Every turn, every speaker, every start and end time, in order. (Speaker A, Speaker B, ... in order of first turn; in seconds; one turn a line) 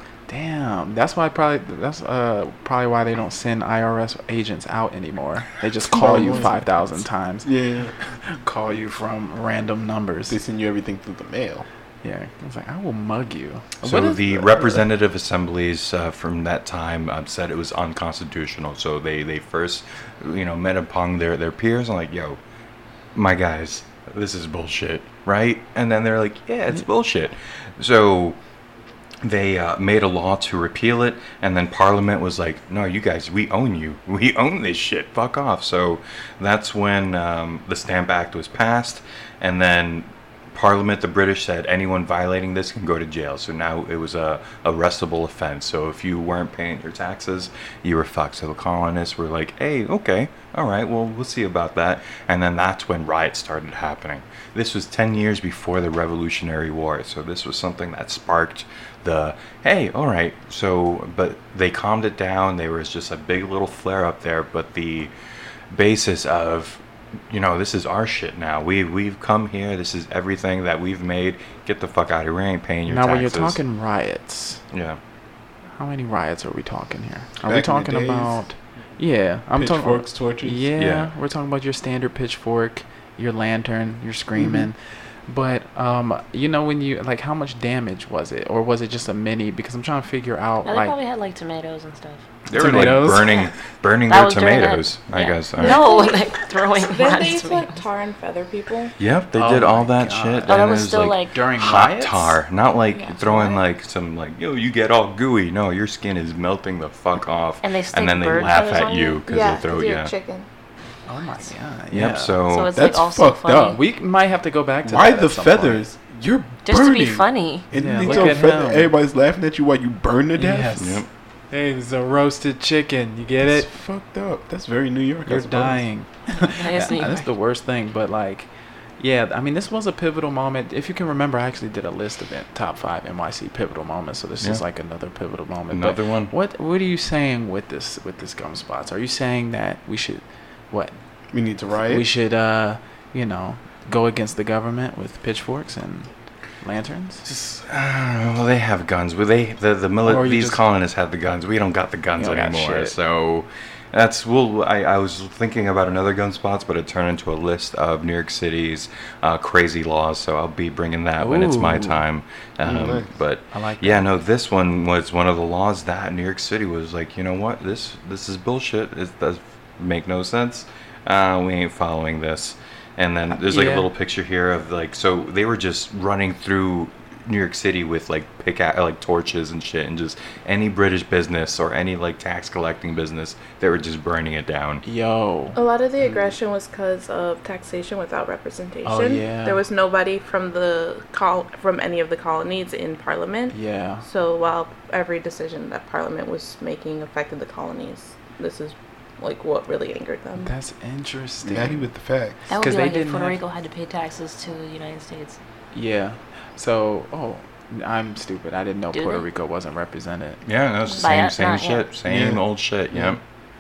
Speaker A: 0.3-7.5
Speaker B: 5.9-6.9
Speaker B: 7.4-7.9
Speaker A: 8.0-10.4
Speaker B: 10.3-11.7
Speaker A: 12.0-14.8
Speaker C: 13.8-22.4
Speaker C: 23.1-28.4
Speaker C: 29.2-65.1
Speaker C: 65.7-73.6
Speaker A: 72.9-74.6
Speaker C: 74.7-75.0
Speaker A: 75.8-91.0
Speaker B: 77.4-78.4
Speaker B: 79.5-80.7
Speaker C: 80.8-81.1
Speaker B: 84.4-84.7
Speaker D: 90.6-92.3
Speaker C: 92.5-95.9
Speaker A: 92.5-93.4
Speaker D: 94.1-97.8
Speaker E: 95.6-98.9
Speaker C: 99.0-110.1
Speaker A: 99.3-102.4
Speaker D: 100.5-101.4
Speaker E: 102.9-103.6
Speaker D: 107.6-109.2
Speaker E: 109.2-110.5
Speaker A: 111.1-112.4
Speaker C: 111.9-112.8
Speaker D: 112.5-113.8
Speaker B: 112.7-113.8
Speaker A: 113.6-115.8
Speaker B: 114.8-120.8
Speaker D: 116.6-118.3
Speaker A: 117.7-118.9
Speaker A: 120.3-123.7
Speaker C: 120.8-121.1
Speaker B: 123.4-125.8
Speaker A: 125.2-128.5
Speaker D: 126.4-127.3
Speaker A: 129.0-141.0
Speaker C: 135.7-136.3
Speaker B: 141.3-142.1
Speaker A: 141.8-146.1
Speaker A: 146.6-147.2
Speaker C: 147.2-184.8
Speaker A: 150.0-150.6
Speaker A: 152.2-152.9
Speaker A: 161.2-162.0
Speaker B: 162.6-163.1
Speaker A: 163.5-164.2
Speaker A: 173.3-173.9
Speaker A: 184.8-185.6
Speaker E: 185.5-200.5
Speaker A: 188.8-189.6
Speaker A: 193.5-194.0
Speaker A: 200.4-201.8
Speaker B: 201.4-202.4
Speaker A: 202.5-203.4
Speaker D: 202.5-205.4
Speaker A: 205.7-210.4
Speaker D: 208.9-209.3
Speaker C: 210.4-213.2
Speaker D: 211.0-212.0
Speaker B: 212.1-212.4